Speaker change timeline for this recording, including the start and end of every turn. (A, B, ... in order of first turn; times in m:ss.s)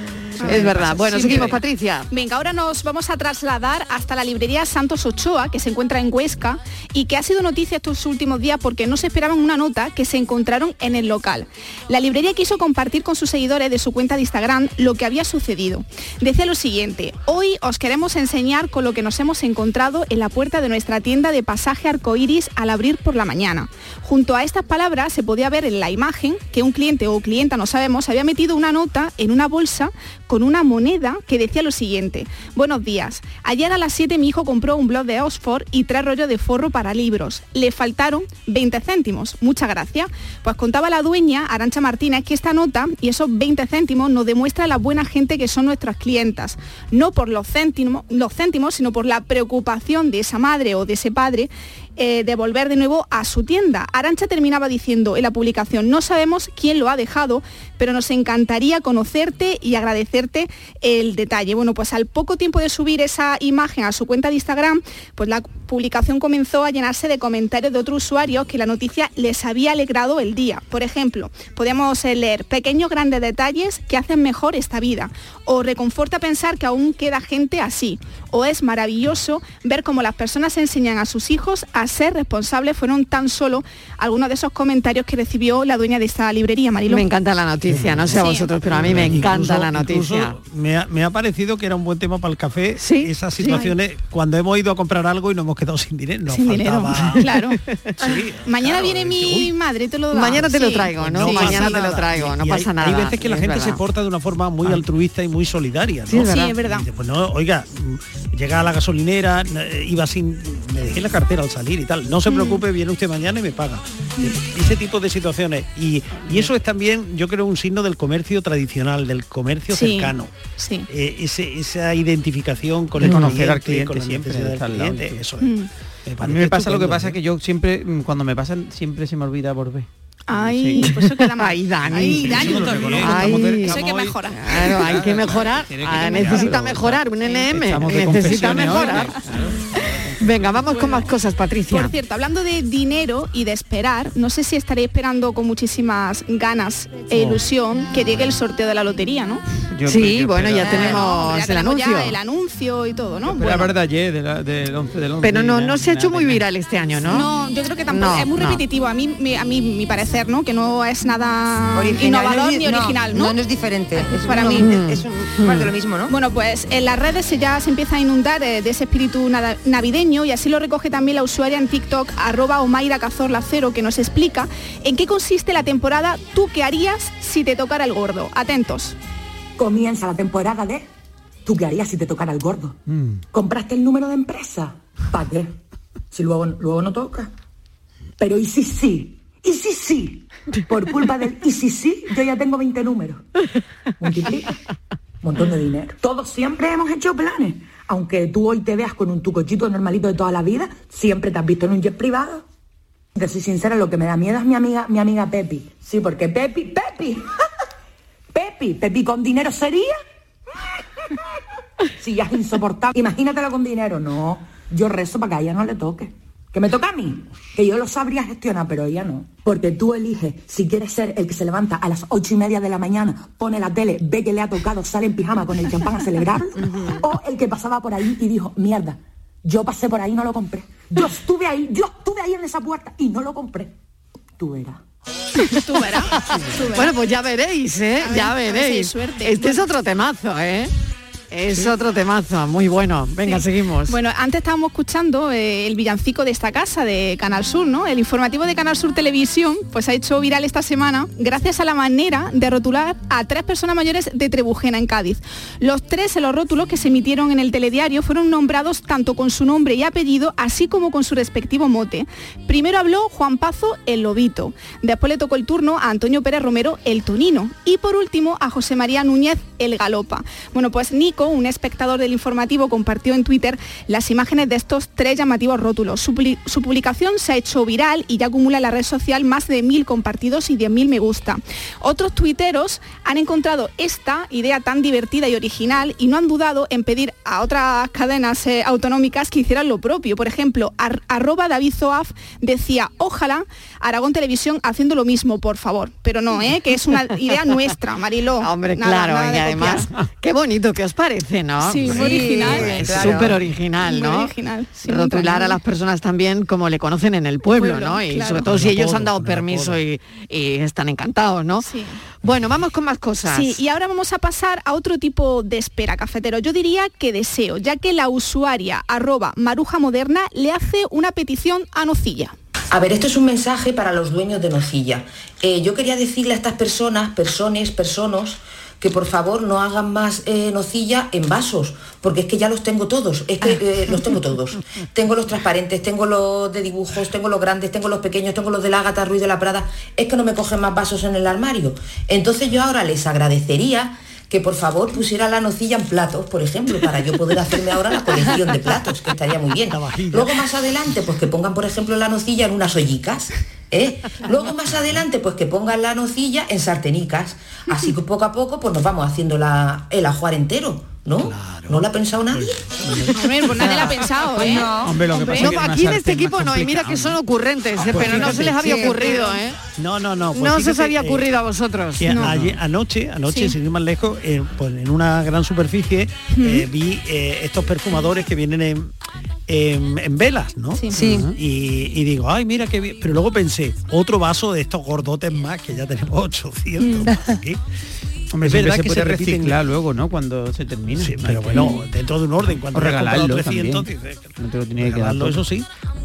0:00.4-0:02.1 A
0:00.4-0:01.4 B
0:00.4-0:01.6 C
0:02.1-1:27.1 B
1:26.9-1:30.4 A
1:27.7-1:28.1 C
1:27.7-1:28.0 D
1:28.1-1:28.7 B
1:28.8-1:29.4 C
1:28.8-1:37.4 D
1:32.8-1:33.6 A
1:33.4-1:33.8 B
1:36.3-1:37.6 B
1:38.0-1:39.5 D
1:38.4-1:41.9 B
1:40.1-1:43.8 A
1:41.0-2:00.3 D
1:46.1-1:46.6 A
1:46.2-1:46.9 B
1:52.3-1:52.6 B
1:59.7-2:00.9 B
2:00.9-2:07.2 D
2:03.0-2:05.3 C
2:03.1-2:03.3 A
2:05.4-2:05.7 B
2:06.2-2:11.0 C
2:10.3-2:13.0 B
2:10.8-2:19.2 A
2:11.9-2:13.9 D
2:11.9-2:20.6 C
2:13.6-2:14.5 B
2:20.2-2:21.9 A
2:21.7-2:29.4 B
2:27.1-2:27.4 C
2:29.8-2:31.0 C
2:29.8-2:32.2 A
2:30.6-2:33.7 B
2:33.2-2:37.0 C
2:35.2-2:37.3 A
2:37.1-2:43.4 B
2:37.9-2:38.6 A
2:41.8-2:46.1 E
2:44.0-2:44.7 B
2:44.6-2:45.7 A
2:46.1-2:59.0 B
2:59.6-3:00.9 F
3:01.4-3:02.8 F
3:02.9-3:03.2 C
3:03.3-3:05.5 F
3:06.1-3:07.3 F
3:08.2-3:13.2 F
3:14.0-3:14.5 F
3:15.2-3:22.4 F
3:23.2-3:27.3 F
3:28.3-3:30.0 F
3:32.0-3:53.7 F
3:54.4-3:54.8 F
3:55.4-3:57.0 B
3:56.2-4:00.7 A
3:58.0-3:59.6 B
4:01.3-4:04.0 A
4:03.2-4:59.9 B
4:58.4-5:04.3 A
5:01.6-5:03.1 B
5:01.8-5:03.4 E
5:02.8-5:03.4 C
5:03.8-5:05.6 B
5:04.8-5:11.7 A
5:07.6-5:08.5 B
5:08.5-5:09.8 C
5:08.6-5:08.9 D
5:11.6-5:12.0 B
5:12.2-5:13.6 A
5:13.3-5:22.4 B
5:22.7-6:02.7 G
5:49.7-5:50.5 D
6:01.2-6:01.8 D
6:02.4-6:02.9 D
6:02.9-6:05.6 B
6:03.0-6:07.2 C
6:04.4-6:05.0 E
6:05.3-6:09.6 A
6:07.9-6:09.3 E
6:07.9-6:08.6 C
6:08.4-6:08.9 B
6:09.8-6:11.2 D
6:10.4-6:12.3 A
6:12.0-6:18.9 D
6:12.1-6:12.4 B
6:12.2-6:12.6 C
6:13.3-6:13.6 B
6:16.3-6:16.7 B
6:19.5-6:27.6 D
6:20.9-6:21.3 E
6:21.0-6:21.3 C
6:26.8-6:27.1 B
6:28.3-6:31.9 C
6:28.4-6:29.6 D
6:31.0-6:35.7 D
6:32.5-6:35.5 C